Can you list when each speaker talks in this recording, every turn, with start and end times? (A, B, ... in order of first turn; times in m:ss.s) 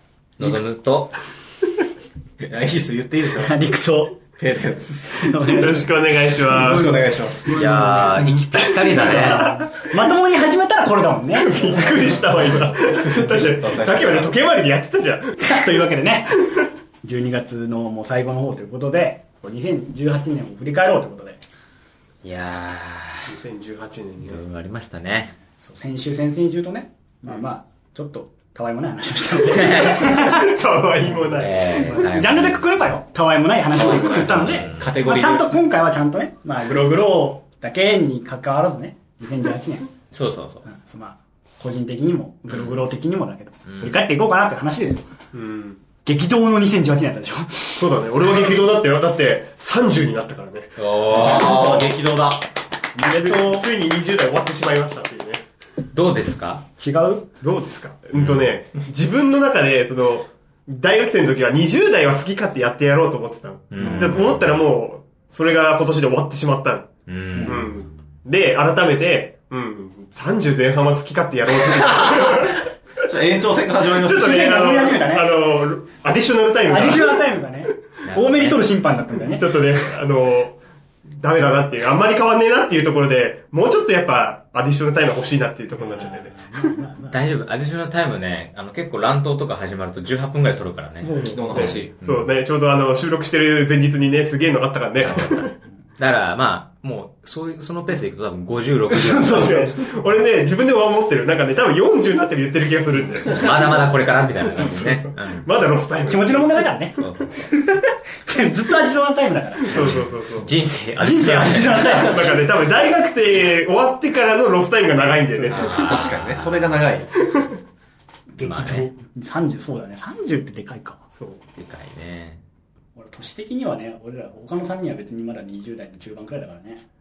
0:00.4-0:01.2 A
0:02.4-0:03.6 B
0:03.4-0:04.2 C
0:04.4-0:05.6 B
0:05.1-0:05.9 C
0:05.5-0:07.0 D
0:06.5-0:07.5 B
0:07.5-0:09.5 A
0:07.5-0:09.7 D
0:08.9-0:12.2 C
0:11.4-0:15.5 D
0:12.8-0:14.4 B
0:15.4-0:16.3 C
0:17.0-0:21.4 C
0:22.2-0:23.3 A
0:23.3-0:24.4 D
0:24.2-0:25.3 A
0:25.6-0:30.5 C
0:29.8-0:32.2 D
0:31.3-0:32.7 A
0:31.9-0:39.9 C
0:33.7-0:35.5 B
0:33.7-0:34.9 A
0:40.1-0:40.7 A
0:40.7-0:45.1 C
0:42.5-0:42.9 A
0:43.7-0:44.0 A
0:45.3-0:45.8 D
0:46.0-0:47.9 C
0:47.8-0:51.9 D
0:50.8-0:51.8 A
0:51.1-0:52.5 B
0:53.0-0:53.7 C
0:53.0-0:55.4 D
0:55.9-0:56.6 A
0:56.8-0:57.3 C
0:57.4-1:06.9 D
0:58.1-0:58.6 A
1:03.7-1:04.5 A
1:03.8-1:04.3 B
1:07.1-1:08.0 A
1:07.3-1:07.7 C
1:07.4-1:12.7 D
1:11.8-1:14.4 B
1:13.9-1:17.3 D
1:14.2-1:15.3 C
1:16.6-1:19.5 C
1:18.0-1:18.6 A
1:19.3-1:20.6 D
1:21.2-1:26.8 D
1:25.8-1:27.2 C
1:27.1-1:32.3 A
1:31.0-1:31.7 C
1:31.2-1:31.9 B
1:31.3-1:35.6 D
1:35.0-1:39.7 A
1:38.9-1:39.8 C
1:39.2-1:43.9 D
1:43.3-1:45.5 A
1:44.5-1:46.7 D
1:46.1-1:49.9 C
1:47.0-1:47.5 A
1:49.6-1:50.5 D
1:49.7-1:52.2 A
1:51.0-1:52.4 C
1:52.0-1:56.1 D
1:55.5-1:56.8 A
1:55.6-1:57.1 B
1:58.3-2:01.0 C
1:58.4-1:58.9 A
2:01.2-2:01.4 D
2:01.6-2:02.4 A
2:03.0-2:06.8 C